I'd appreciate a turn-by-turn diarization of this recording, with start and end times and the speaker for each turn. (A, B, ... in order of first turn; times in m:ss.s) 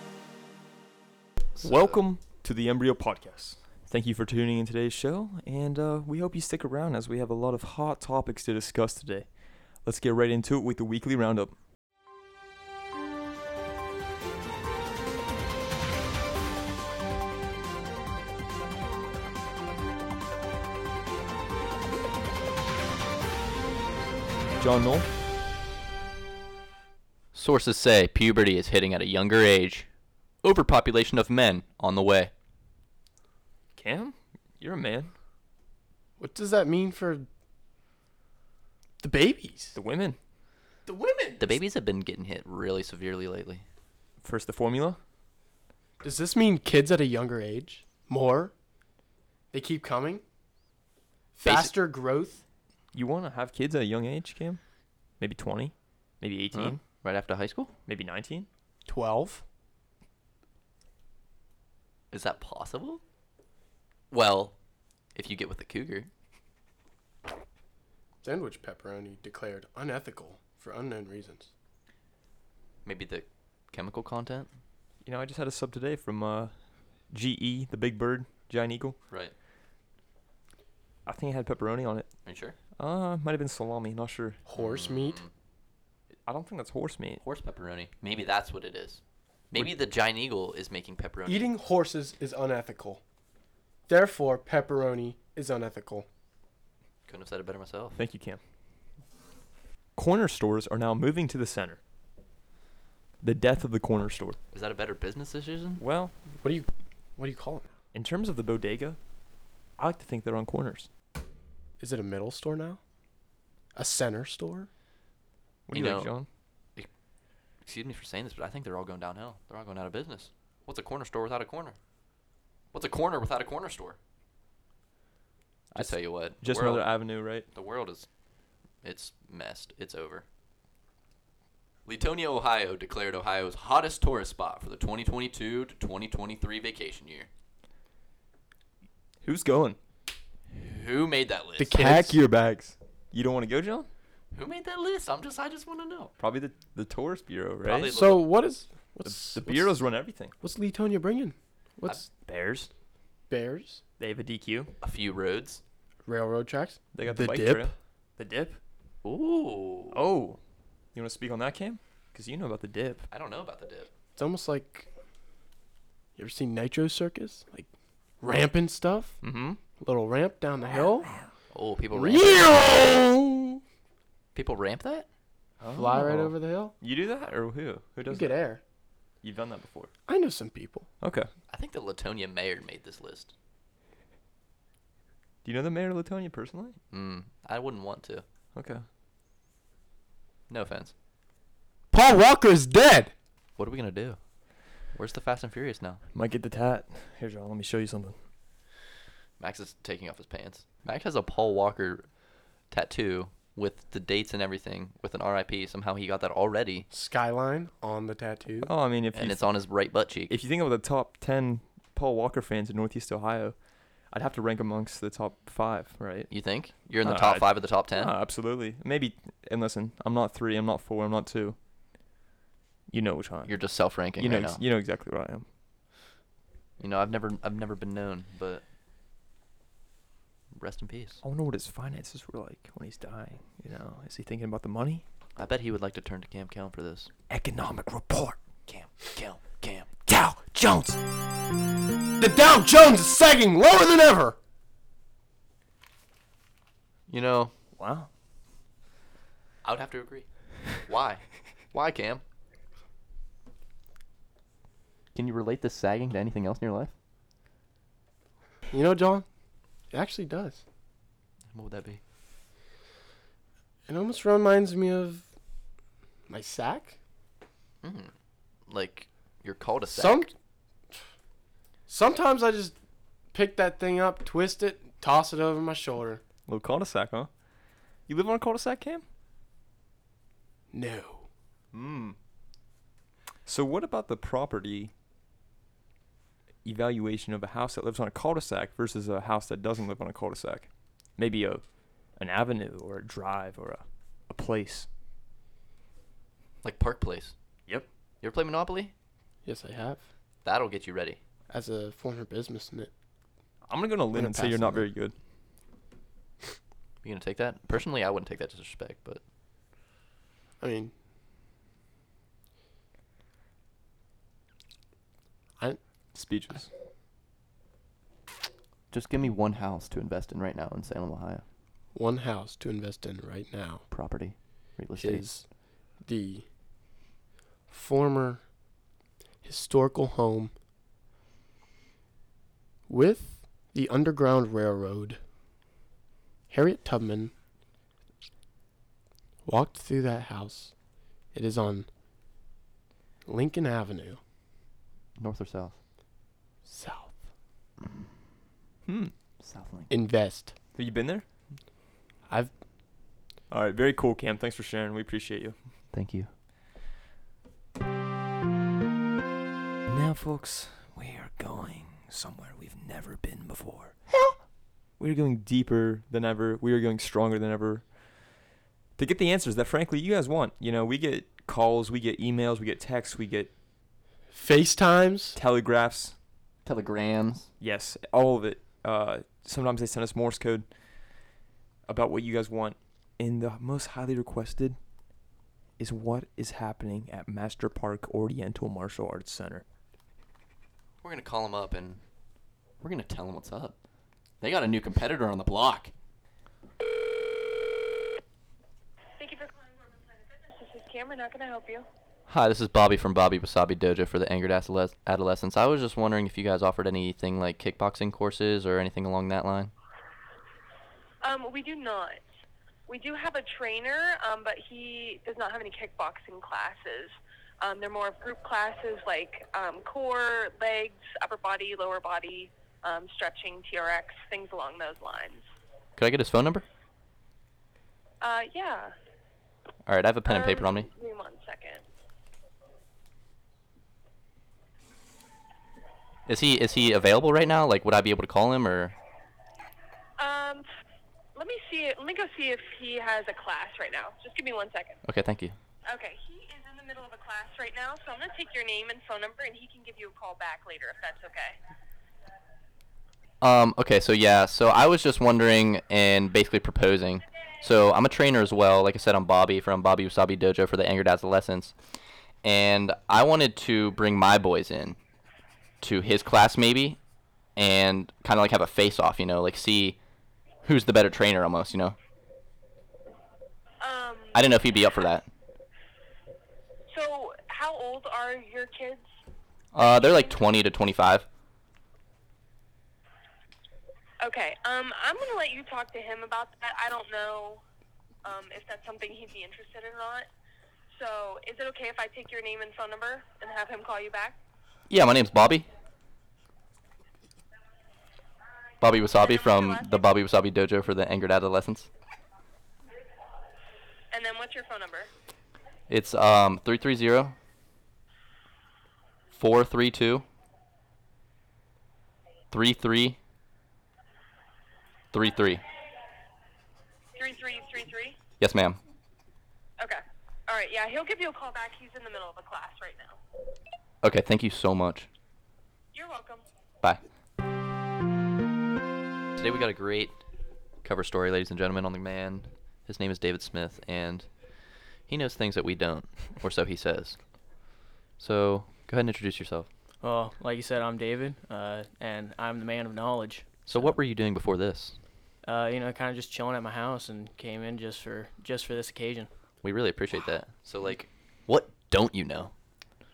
0:01.6-0:02.0 A
0:01.6-0:11.5 B
0:24.6-0:25.1 B
0:27.3-0:29.9 A
0:30.4-0:32.3 A
0:33.8-0:35.1 B
0:36.2-0:37.3 C
0:39.0-0:39.8 C
0:39.7-0:40.2 B
0:40.9-0:41.6 C
0:41.4-0:43.6 A
0:44.2-0:45.0 B
0:46.0-0:48.5 C
0:49.5-0:50.2 C
0:51.4-0:52.4 C
0:51.4-0:51.7 A
0:52.9-0:54.6 B
0:55.2-0:56.8 B
0:56.5-0:57.7 A
0:57.9-0:58.5 B
0:58.9-0:59.4 C
1:02.1-1:03.0 A
1:04.1-1:04.6 A
1:05.1-1:06.1 A
1:08.2-1:11.5 C
1:12.8-1:14.5 A
1:15.0-1:16.6 B
1:17.1-1:19.0 B
1:19.1-1:19.3 A
1:21.1-1:22.1 B
1:22.2-1:22.6 A
1:22.8-1:24.4 B
1:24.5-1:25.2 C
1:24.5-1:25.3 A
1:26.1-1:27.2 B
1:27.2-1:31.5 A
1:31.2-1:33.0 C
1:33.9-1:36.1 C
1:37.1-1:38.0 A
1:38.0-1:38.4 B
1:40.0-1:41.8 B
1:43.2-1:44.4 B
1:44.5-1:45.8 A
1:45.8-1:46.2 B
1:46.4-1:47.7 C
1:47.9-1:49.0 B
1:49.8-1:50.9 B
1:51.8-1:52.8 C
1:53.8-1:54.7 C
1:55.7-1:56.3 B
1:55.7-1:56.1 A
1:57.6-2:01.8 A
2:02.7-2:04.0 A
2:05.7-2:08.1 A
2:05.7-2:07.5 B
2:08.8-2:10.3 A
2:11.9-2:17.3 A
2:19.2-2:19.8 B
2:20.5-2:21.8 A
2:21.6-2:22.2 C
2:21.7-2:23.9 B
2:24.3-2:26.1 A
2:26.2-2:28.0 B
2:27.6-2:28.3 A
2:27.9-2:29.8 C
2:29.0-2:30.3 B
2:30.4-2:32.0 C
2:32.0-2:32.7 B
2:33.3-2:33.8 C
2:34.0-2:34.7 B
2:34.8-2:35.6 A
2:36.0-2:37.7 C
2:36.9-2:38.6 B
2:39.0-2:40.0 A
2:39.9-2:40.4 B
2:40.9-2:43.1 B
2:43.1-2:43.9 A
2:44.2-2:44.9 C
2:46.2-2:47.7 C
2:48.2-2:49.2 C
2:49.2-2:49.6 B
2:49.8-2:51.1 C
2:51.5-2:52.8 A
2:51.9-2:53.6 C
2:54.3-2:55.1 A
2:55.6-2:58.4 B
2:55.7-2:56.8 C
2:58.1-2:58.6 C
2:59.2-2:59.9 B
3:00.1-3:00.9 C
3:01.0-3:01.3 B
3:01.5-3:03.3 A
3:05.4-3:06.8 B
3:06.9-3:08.2 A
3:08.6-3:08.9 B
3:10.5-3:10.9 A
3:11.9-3:13.1 C
3:13.6-3:14.2 A
3:14.9-3:16.0 A
3:16.1-3:18.2 B
3:19.4-3:22.1 A
3:22.7-3:26.9 A
3:26.9-3:28.7 C
3:28.6-3:29.6 B
3:29.1-3:30.3 A
3:30.3-3:36.3 B
3:36.3-3:38.1 A
3:37.0-3:41.6 B
3:42.9-3:45.4 B
3:43.4-3:44.6 A
3:46.8-3:48.6 A
3:50.5-3:51.2 A
3:51.2-3:55.0 B
3:55.4-3:57.1 A
3:57.3-3:58.5 B
3:58.7-3:59.9 A
4:00.1-4:01.0 B
4:02.2-4:04.4 C
4:07.1-4:07.5 A
4:07.8-4:08.1 B
4:09.6-4:12.2 A
4:15.1-4:16.9 A
4:18.7-4:19.3 C
4:19.9-4:20.6 C
4:21.5-4:22.0 A
4:23.9-4:25.3 C
4:26.3-4:27.0 C
4:27.8-4:28.1 A
4:28.7-4:30.3 A
4:29.9-4:30.3 C
4:31.9-4:32.8 C
4:33.3-4:36.2 C
4:36.5-4:37.3 B
4:38.1-4:39.0 B
4:40.7-4:41.3 C
4:41.7-4:42.2 B
4:43.4-4:44.9 B
4:46.6-4:54.9 B
4:56.6-4:57.4 A
4:58.2-4:58.9 A
4:59.4-5:00.0 C
5:00.4-5:01.2 A
5:01.5-5:02.9 C
5:03.7-5:05.2 B
5:04.1-5:04.9 C
5:07.0-5:09.2 A
5:10.6-5:10.9 C
5:16.1-5:16.7 B
5:18.9-5:21.4 A
5:21.9-5:23.8 C
5:23.9-5:25.4 A
5:24.9-5:25.5 C
5:26.0-5:26.4 C
5:27.7-5:28.5 C
5:29.4-5:30.5 C
5:32.9-5:35.2 C
5:36.5-5:37.3 C
5:39.4-5:40.7 C
5:41.3-5:41.9 C
5:43.3-5:44.2 C
5:45.2-5:45.8 A
5:46.6-5:47.3 C
5:48.9-5:49.1 B
5:49.4-5:49.9 A
5:49.9-5:50.6 C
5:50.7-5:51.3 B
5:52.3-5:52.5 C
5:53.5-5:55.6 B
5:55.9-5:56.3 A
5:59.9-6:04.4 B
6:05.0-6:07.9 B
6:09.0-6:13.5 B
6:14.3-6:15.4 C
6:15.4-6:16.2 B
6:16.6-6:17.5 A
6:17.6-6:20.7 B
6:21.9-6:24.8 B
6:25.8-6:29.6 B
6:31.0-6:32.0 A
6:32.8-6:33.8 A
6:34.4-6:35.9 A
6:39.2-6:41.9 D
6:42.3-6:49.7 A
6:51.2-6:52.2 D
6:52.9-7:05.4 D
7:06.0-7:06.6 A
7:08.2-7:08.9 D
7:09.8-7:10.9 A
7:10.2-7:11.8 D
7:16.3-7:19.0 A
7:20.2-7:20.7 D
7:21.4-7:25.0 D
7:25.0-7:25.6 A
7:25.9-7:31.6 D
7:33.4-7:41.8 A
7:42.4-7:45.0 A
7:45.8-7:47.0 A
7:47.6-7:50.0 A
7:50.6-7:52.0 A
7:53.8-7:54.6 D
7:54.3-7:55.3 A
7:56.9-7:59.1 D
7:59.7-8:01.3 A
8:04.2-8:07.6 D
8:08.2-8:10.3 D
8:11.0-8:14.4 D
8:14.9-8:15.7 A
8:18.8-8:21.9 A
8:19.1-8:20.1 D
8:24.1-8:25.1 D
8:25.9-8:27.4 A
8:29.3-8:30.2 A
8:32.5-8:33.2 A
8:35.1-8:35.6 A
8:37.2-8:38.2 D
8:38.4-8:38.8 A
8:39.8-8:43.2 D
8:44.0-8:45.1 A
8:45.9-8:46.4 D
8:49.4-8:50.2 A
8:50.8-8:54.3 A
8:55.1-8:57.2 A
8:58.2-8:59.7 A
9:00.0-9:04.0 E
9:03.7-9:05.0 A
9:05.4-9:09.3 E
9:09.6-9:12.5 A